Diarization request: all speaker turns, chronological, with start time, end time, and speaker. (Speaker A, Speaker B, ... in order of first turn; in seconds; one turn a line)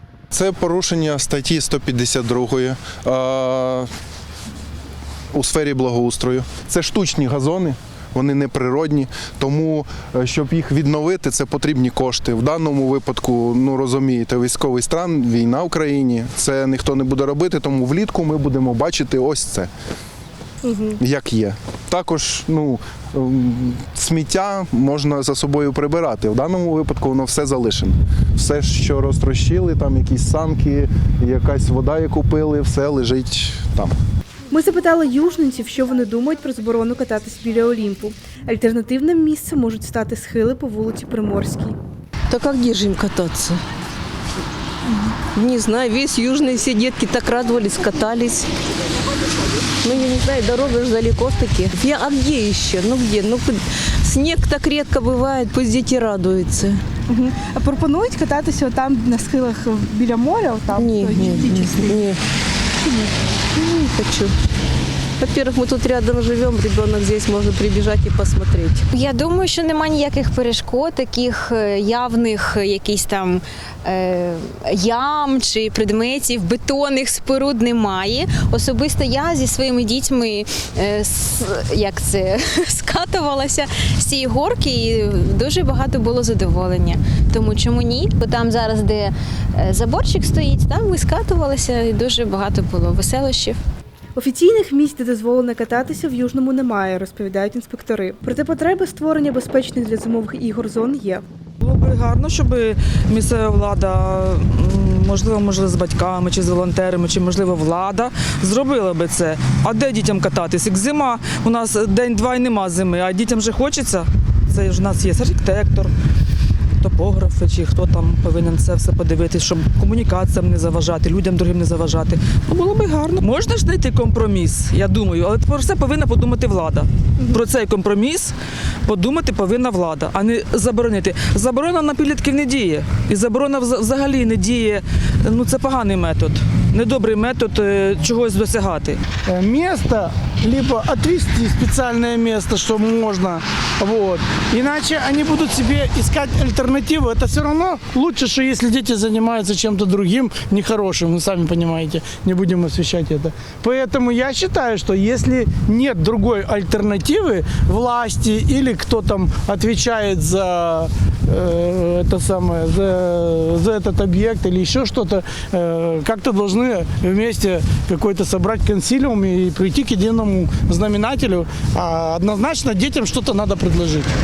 Speaker A: 0.3-3.9
Speaker A: 5.3-19.7
Speaker B: 20.6-21.0
Speaker A: 21.0-34.0
Speaker B: 34.5-41.8
Speaker C: 42.3-43.6
Speaker C: 44.9-48.5
Speaker C: 49.8-56.8
Speaker B: 57.1-62.0
Speaker C: 60.8-62.2
Speaker B: 62.8-63.1
Speaker C: 63.5-64.3
Speaker C: 65.2-68.8
Speaker D: 68.9-93.6
Speaker B: 94.2-101.2
Speaker E: 101.6-115.9
Speaker E: 116.8-139.0
Speaker F: 139.3-174.1